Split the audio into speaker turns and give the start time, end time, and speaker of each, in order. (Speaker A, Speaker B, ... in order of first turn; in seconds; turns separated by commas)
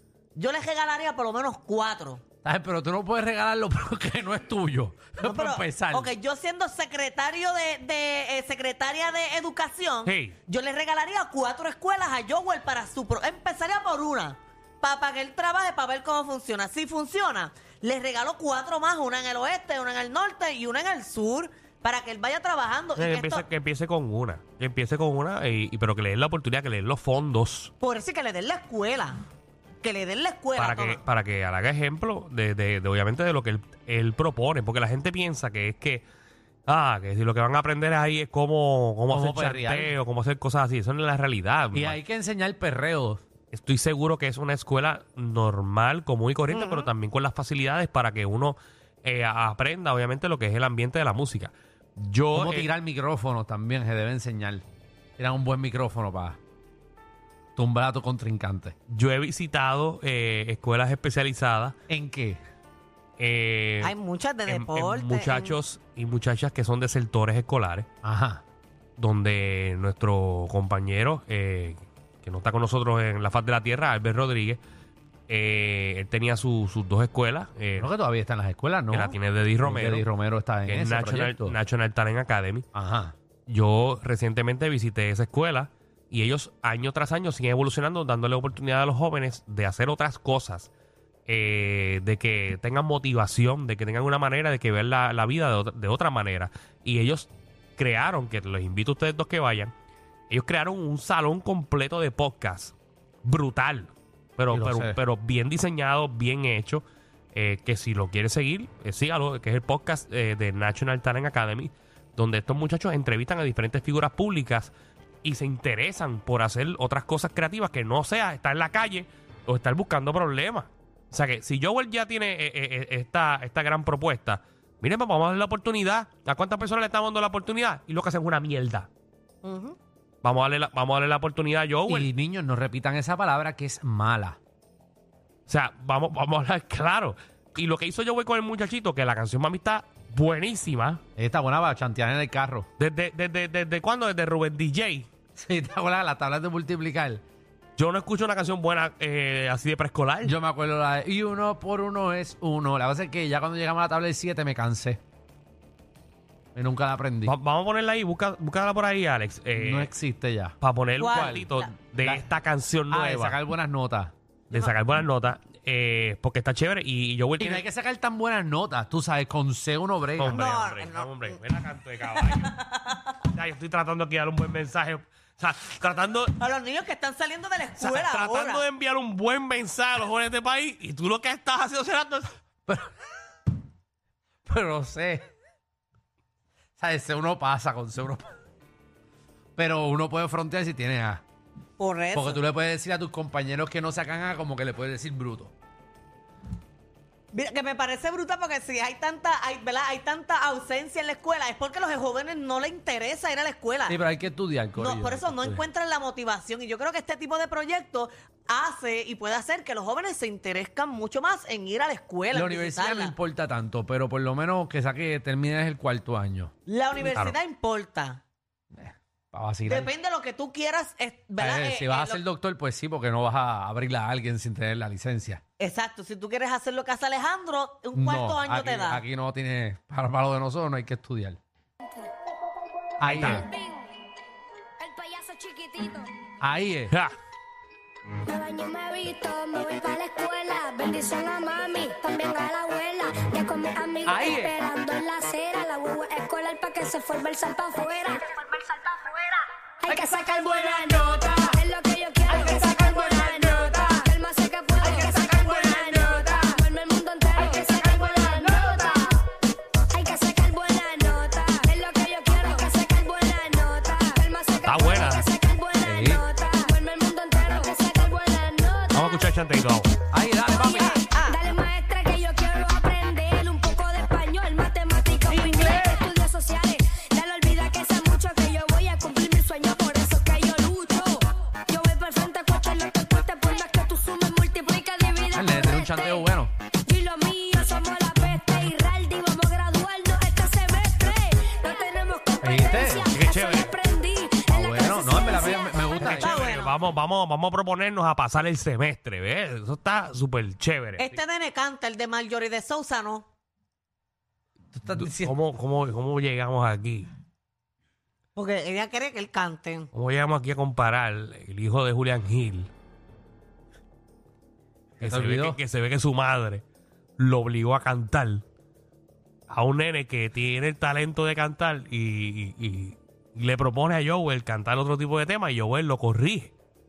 Speaker A: 0.3-2.2, Speaker B: 2.4-6.1, Speaker A: 5.2-23.4, Speaker C: 10.0-10.3, Speaker C: 23.0-27.7, Speaker A: 27.8-29.2, Speaker A: 29.8-31.0, Speaker C: 30.6-36.0, Speaker C: 36.7-42.0, Speaker B: 39.1-39.9, Speaker B: 41.7-43.2, Speaker C: 43.5-52.7, Speaker A: 46.5-46.9, Speaker B: 52.3-54.6, Speaker B: 55.2-56.4, Speaker B: 57.5-58.8, Speaker C: 58.9-61.7, Speaker B: 61.9-62.4, Speaker C: 63.2-63.9, Speaker A: 63.8-65.6, Speaker C: 64.5-67.9, Speaker B: 68.0-68.4, Speaker C: 69.0-74.6, Speaker C: 75.3-77.9, Speaker B: 77.8-81.6, Speaker C: 78.9-80.1, Speaker C: 80.6-82.6, Speaker B: 82.7-83.1, Speaker C: 83.5-90.7, Speaker C: 91.3-99.7, Speaker C: 100.3-128.9, Speaker B: 104.5-105.0, Speaker A: 129.4-129.8, Speaker C: 130.2-132.1, Speaker B: 131.9-134.4, Speaker C: 135.5-141.0, Speaker B: 141.2-142.7, Speaker C: 142.8-145.1, Speaker B: 145.3-147.2, Speaker C: 147.8-150.3, Speaker B: 150.2-155.0, Speaker B: 156.5-157.3, Speaker C: 157.2-159.9, Speaker B: 159.5-162.3, Speaker C: 160.6-163.4, Speaker A: 161.0-161.4, Speaker B: 162.9-164.1, Speaker C: 164.5-167.6, Speaker B: 167.4-170.4, Speaker C: 170.2-172.6, Speaker A: 170.2-171.4, Speaker A: 172.1-173.1, Speaker C: 173.3-176.3, Speaker A: 176.4-178.6, Speaker C: 177.8-182.3, Speaker B: 182.7-182.9, Speaker B: 184.4-185.3, Speaker B: 186.8-188.3, Speaker B: 189.6-191.2, Speaker A: 191.8-192.4, Speaker B: 192.1-195.5, Speaker A: 197.3-204.0, Speaker B: 203.9-205.6, Speaker A: 204.8-213.1, Speaker B: 212.3-216.5, Speaker A: 216.7-218.2, Speaker C: 217.0-217.3, Speaker B: 218.8-219.9, Speaker A: 219.7-222.2, Speaker B: 221.4-225.4, Speaker A: 225.6-229.0, Speaker B: 227.9-231.4, Speaker D: 232.0-233.9, Speaker B: 233.0-233.5, Speaker C: 233.1-233.4, Speaker D: 234.8-236.1, Speaker B: 236.4-236.9, Speaker D: 238.2-259.2, Speaker B: 244.0-244.6, Speaker B: 249.9-251.5, Speaker B: 252.3-253.8, Speaker B: 254.9-256.4, Speaker B: 258.5-258.7, Speaker D: 259.9-269.3, Speaker C: 264.6-265.2, Speaker B: 265.8-266.2, Speaker C: 268.9-269.9, Speaker B: 270.1-271.0, Speaker D: 270.4-286.3, Speaker A: 270.7-271.5, Speaker A: 275.3-275.9, Speaker B: 285.3-286.5, Speaker D: 286.9-296.2, Speaker B: 292.4-293.4, Speaker B: 294.5-296.5, Speaker C: 296.0-301.2, Speaker A: 296.1-296.8, Speaker A: 301.0-303.2, Speaker B: 304.7-305.3, Speaker C: 304.9-307.1, Speaker A: 308.4-309.9, Speaker C: 309.9-312.7, Speaker B: 315.0-315.6, Speaker C: 315.0-316.6, Speaker C: 317.2-318.4, Speaker C: 319.5-326.5